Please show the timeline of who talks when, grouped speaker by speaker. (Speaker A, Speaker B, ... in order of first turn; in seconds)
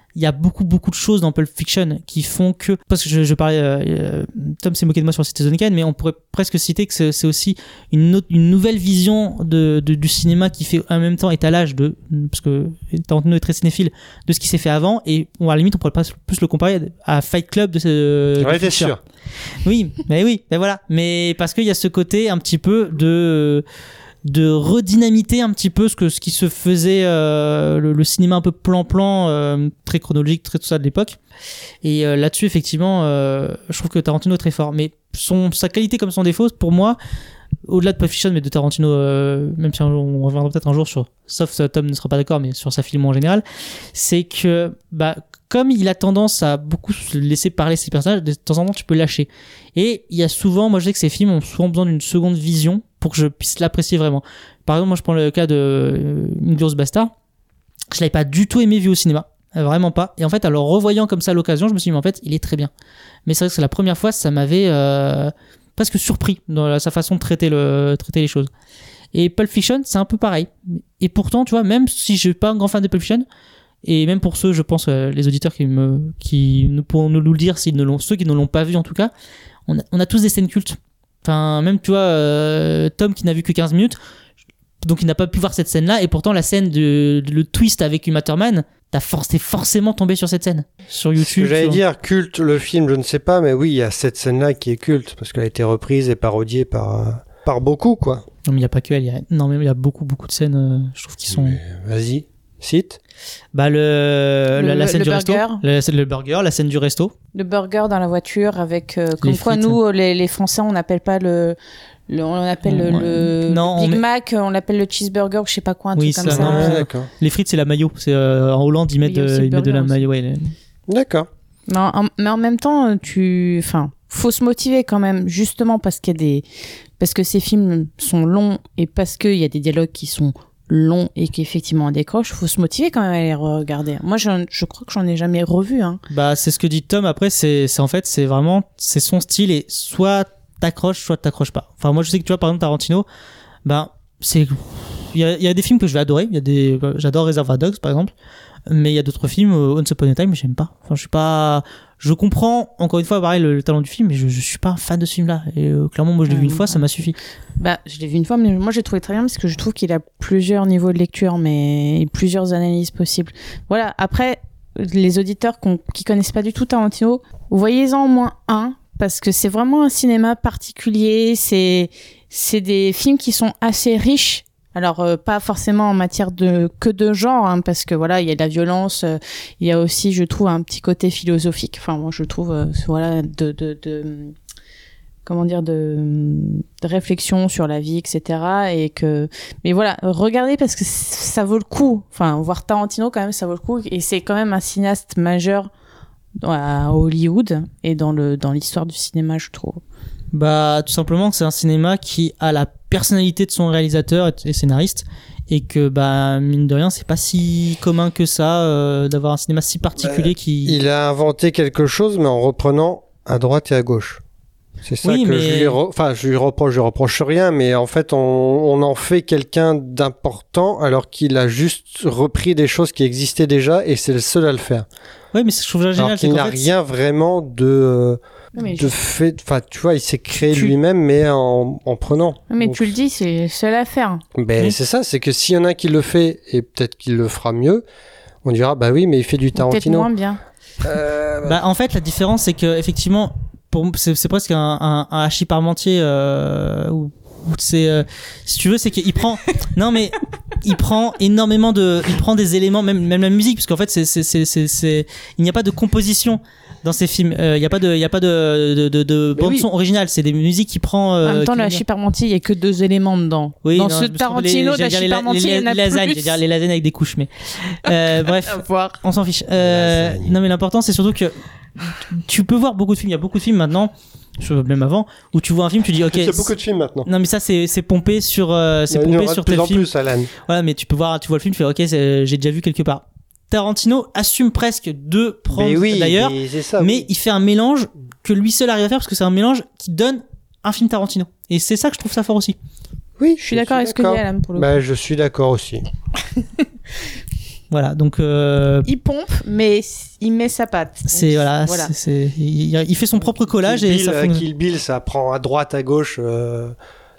Speaker A: 0.2-18.9, 19.6-23.6, 24.3-31.2, 31.8-37.0, 37.7-57.1, 57.9-62.7, 63.3-68.5, 69.1-73.2, 73.8-79.1, 79.7-84.0, 84.8-91.8, 98.5-101.6, 103.5-107.1, 109.2-109.8, 112.7-114.0, 116.0-120.5, 136.1-143.1, 143.7-148.1, 148.7-157.1, 200.3-210.8, 215.0-215.8, 225.3-226.7, 241.4-261.8, 263.6-276.5, 277.1-279.9, 280.4-292.6, 297.7-298.9, 301.1-304.4
Speaker B: 18.4-19.0, 91.2-98.2, 101.3-103.0, 116.3-117.1, 120.9-121.3, 210.0-214.2, 214.8-224.9, 225.9-228.2, 228.8-232.9, 234.3-237.8, 238.4-240.1, 240.8-241.6, 269.6-270.4, 276.1-277.1, 278.9-280.3, 285.5-287.1, 293.2-295.9, 303.6-306.8
Speaker C: 104.6-105.6, 107.3-111.6, 112.1-116.8, 119.0-120.0, 121.7-126.5, 127.0-136.0, 156.3-156.8, 157.6-184.3, 185.2-195.7, 196.4-199.8, 228.6-228.9, 232.5-234.2, 239.6-240.4, 259.4-259.6, 261.2-266.4, 268.1-269.0, 293.4-294.7, 298.9-301.9